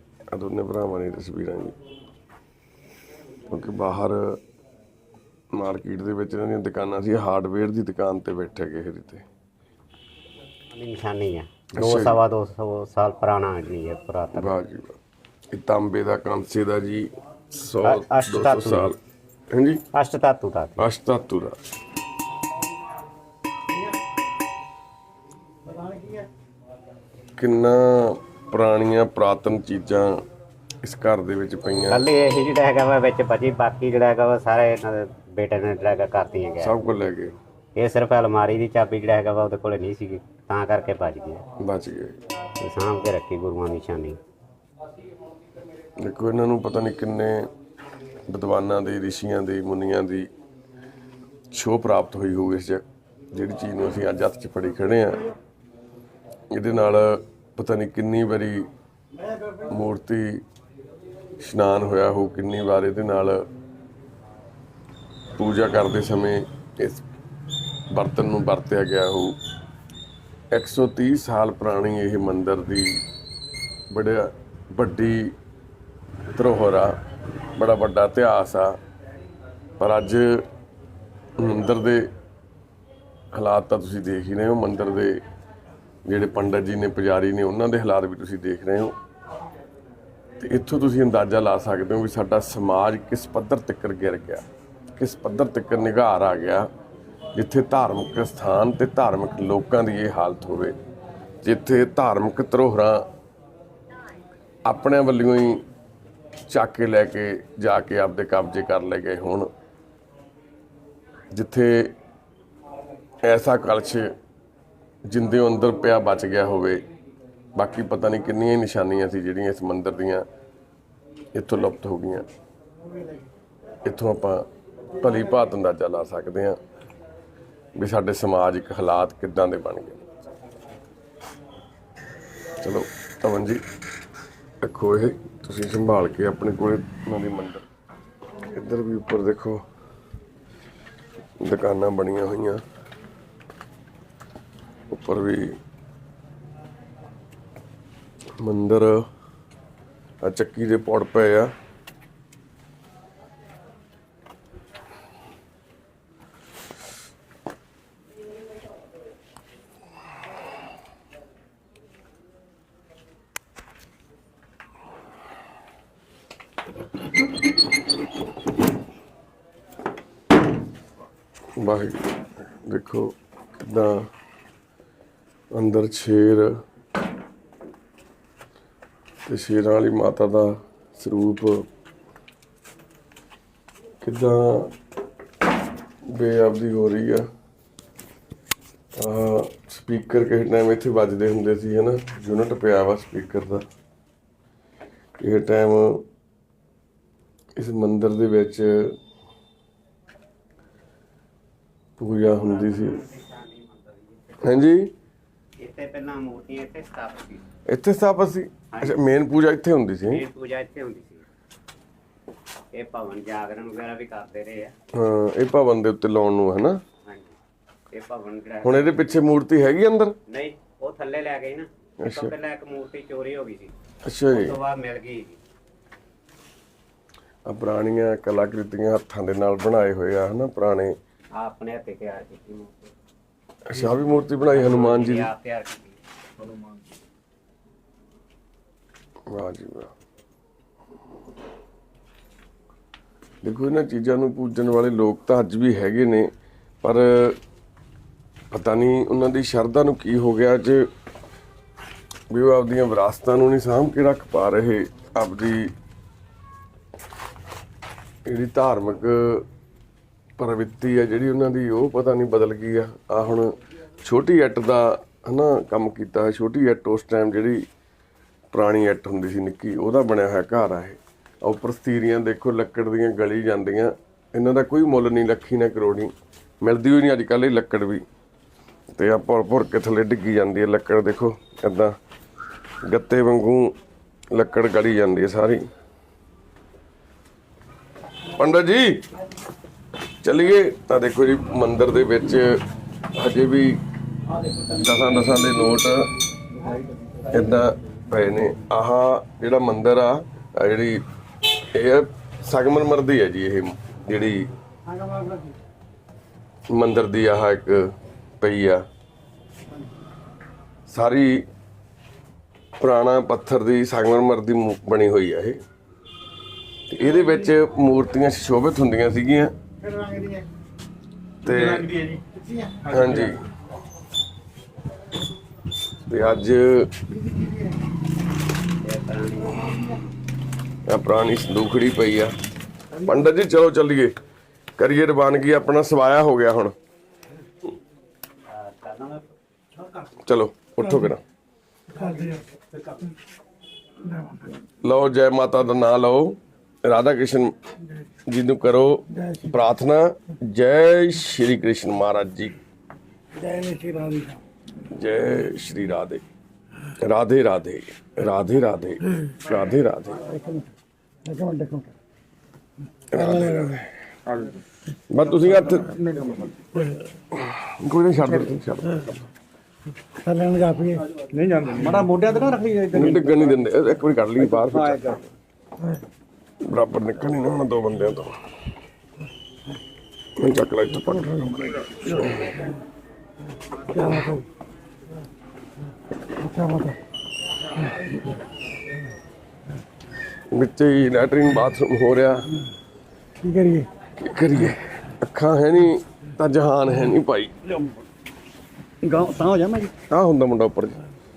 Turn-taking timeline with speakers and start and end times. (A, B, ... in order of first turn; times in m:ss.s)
0:00.3-0:01.8 A
0:03.5-0:04.4 A
0:05.5-0:09.2 A
0:10.7-0:14.5 B
0:11.8-0:12.2 A
0:14.4-0:15.0 A
0:15.5-0:19.0 A
0:17.8-0:18.9 B
0:19.5-0:19.8 A
0:19.9-0:20.8 B
0:20.8-0:21.6 A
0:25.6-0:26.3 C
0:27.4-0:30.2 A
0:30.8-0:32.0 A
0:31.9-0:36.7 B
0:36.6-0:37.4 A
0:37.8-0:41.4 B
0:41.6-0:42.2 A
0:42.6-0:44.2 B
0:46.0-0:47.5 A
0:48.3-0:50.3 A
0:51.5-0:55.2 A
0:56.5-0:58.7 A
0:59.2-0:59.7 C
0:59.7-1:00.4 A
1:01.4-1:03.5 A
1:05.4-1:07.0 A
1:07.9-1:09.4 A
1:10.5-1:13.0 A
1:13.9-1:15.4 A
1:16.3-1:17.0 A
1:17.6-1:18.8 A
1:19.8-1:20.5 A
1:21.4-1:22.1 A
1:23.3-1:25.2 A
1:26.1-1:29.0 A
1:30.4-1:34.5 A
1:35.0-1:36.7 A
1:37.4-1:40.8 A
1:41.4-1:43.1 A
1:44.7-1:45.6 A
1:46.5-1:49.5 A
1:51.3-1:52.0 A
1:53.2-1:54.1 A
1:55.1-1:56.8 A
1:57.6-2:00.3 A
2:01.4-2:02.3 A
2:03.8-2:04.5 A
2:05.0-2:06.6 A
2:07.8-2:10.0 A
2:12.6-2:13.6 A
2:14.6-2:17.7 A
2:18.5-2:19.6 A
2:21.4-2:22.6 A
2:24.9-2:25.6 A
2:28.4-2:29.1 A
2:30.2-2:31.5 A
2:51.6-2:54.1 A
2:55.5-2:56.6 A
2:59.3-3:01.7 A
3:04.0-3:04.7 A
3:06.1-3:07.3 A
3:09.0-3:13.6 A
3:15.2-3:16.1 A
3:17.6-3:19.0 A
3:22.0-3:23.0 A
3:22.3-3:24.6 B
3:24.4-3:24.9 A
3:25.6-3:27.4 B
3:27.7-3:30.2 A
3:28.7-3:29.0 B
3:30.1-3:31.2 B
3:32.7-3:34.8 B
3:34.9-3:36.8 A
3:37.0-3:37.4 B
3:37.9-3:39.0 B
3:38.6-3:40.2 A
3:40.3-3:43.7 B
3:42.0-3:42.3 A
3:44.0-3:44.6 A
3:44.3-3:45.4 B
3:47.5-3:51.0 A
3:51.4-3:52.9 B
3:53.7-3:55.3 A
3:53.8-3:56.0 B
3:59.3-3:59.9 A
4:03.4-4:06.3 A
4:06.8-4:07.4 A
4:08.5-4:10.9 A
4:12.3-4:15.7 A
4:18.3-4:19.5 A
4:20.4-4:27.6 A
4:28.5-4:38.0 A
4:38.9-4:42.0 A
4:42.8-4:43.8 A
4:44.3-4:45.7 A
4:48.4-4:49.1 A
4:50.2-4:52.6 A
4:53.2-4:53.8 A
4:54.7-4:56.1 A
4:57.3-5:01.0 A
5:01.7-5:04.5 A
5:04.9-5:05.6 C
5:06.7-5:08.8 A
5:10.9-5:11.4 A
5:12.8-5:15.6 A
5:16.9-5:19.5 A
5:19.8-5:20.5 C
5:21.4-5:21.9 A
5:21.5-5:22.2 D
5:22.3-5:22.8 C
5:22.8-5:23.3 D
5:22.9-5:23.4 A
5:26.1-5:26.9 A
5:28.8-5:29.8 B
5:30.9-5:32.4 A
5:33.0-5:34.2 A
5:34.8-5:36.8 A
5:38.5-5:39.2 B
5:40.2-5:41.2 A
5:42.0-5:42.4 C
5:44.1-5:44.4 C
5:44.8-5:47.5 A
5:48.3-5:52.6 A
5:53.3-5:54.4 C
5:54.9-5:56.2 A
5:57.0-6:00.2 A
6:00.2-6:00.7 C
6:01.2-6:02.0 C
6:03.1-6:03.9 A
6:03.1-6:03.8 C
6:04.3-6:04.6 D
6:05.1-6:06.0 A
6:05.6-6:06.7 D
6:07.4-6:09.3 A
6:10.2-6:11.1 C
6:11.2-6:13.6 D
6:12.9-6:15.0 A
6:14.4-6:15.3 D
6:16.6-6:18.4 A
6:20.4-6:22.4 A
6:21.3-6:21.7 C
6:23.9-6:24.5 C
6:26.3-6:27.0 C
6:30.5-6:32.5 A
6:33.4-6:33.9 C
6:34.2-6:37.5 A
6:39.0-6:39.9 D
6:40.1-6:41.0 A